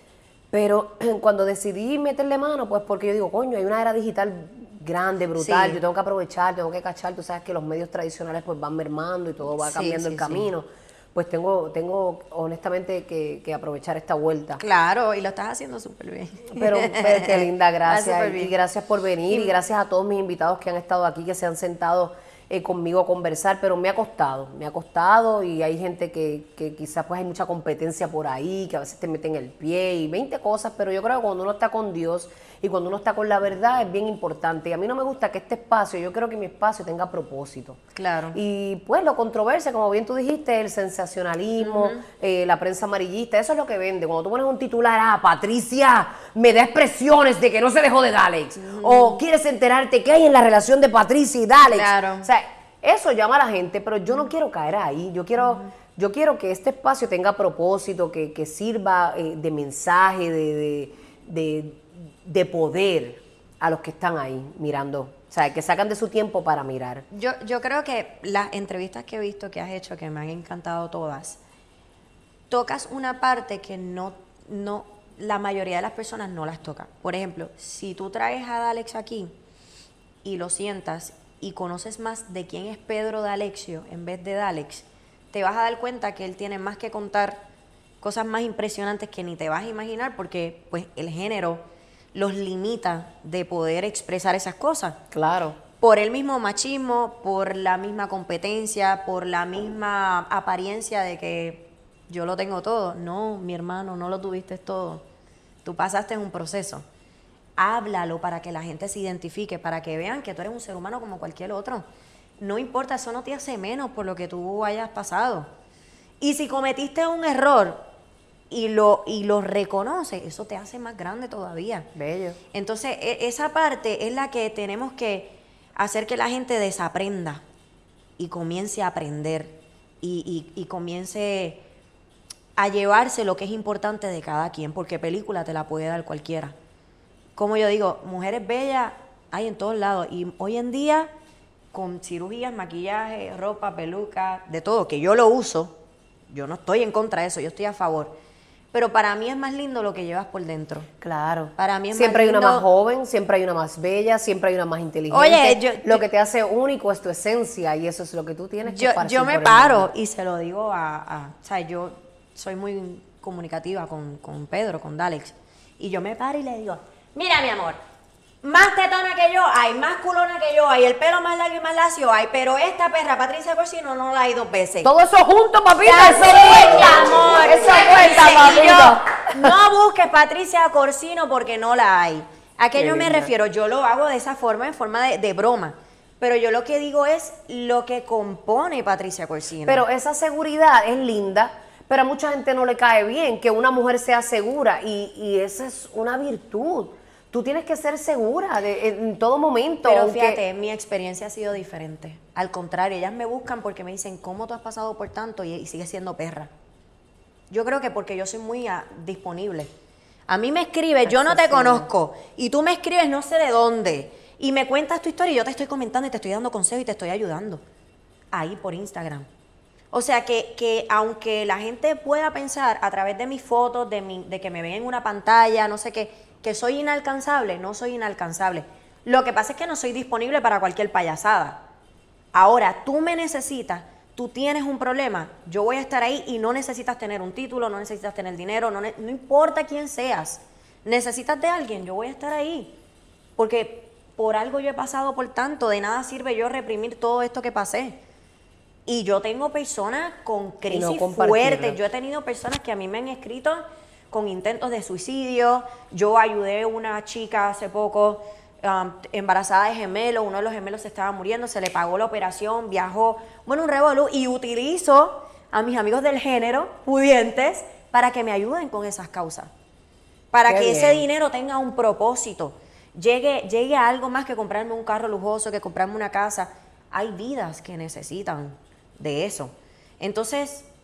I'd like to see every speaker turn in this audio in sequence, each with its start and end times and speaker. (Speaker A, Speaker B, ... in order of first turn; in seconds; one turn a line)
Speaker A: 0.5-14.6
Speaker B: 5.4-5.8
Speaker B: 9.6-10.5
Speaker B: 14.6-18.5
Speaker A: 16.5-37.8
Speaker B: 37.9-38.4
Speaker A: 38.3-67.0
Speaker B: 41.6-42.0
Speaker B: 48.6-49.2
Speaker B: 51.7-52.3
Speaker B: 67.1-71.4
Speaker B: 72.5-79.3
Speaker B: 80.2-87.5
Speaker B: 88.0-95.0
Speaker A: 95.1-95.6
Speaker B: 95.8-105.0
Speaker B: 105.6-106.8
Speaker B: 107.6-111.8
Speaker B: 112.4-115.5
Speaker B: 116.2-117.8
Speaker B: 118.5-121.9
Speaker A: 121.9-122.4
Speaker B: 122.5-127.4
Speaker B: 128.2-131.6
Speaker B: 132.6-136.5
Speaker B: 137.3-141.1
Speaker B: 141.7-145.8
Speaker B: 146.3-148.2
Speaker B: 148.7-150.9
Speaker A: 151.0-159.9
Speaker B: 151.6-152.7
Speaker B: 155.1-156.1
Speaker B: 158.6-167.8
Speaker B: 168.4-174.9
Speaker A: 174.8-179.1
Speaker B: 175.8-189.8
Speaker A: 182.7-183.3
Speaker A: 189.7-200.4
Speaker B: 199.8-206.5
Speaker B: 207.5-209.7
Speaker B: 210.3-217.6
Speaker A: 211.1-211.9
Speaker B: 218.3-219.3
Speaker B: 219.9-231.6
Speaker B: 232.3-242.8
Speaker B: 243.4-248.0
Speaker B: 248.8-269.5
Speaker A: 250.7-251.8
Speaker B: 270.3-280.7
Speaker A: 270.5-271.1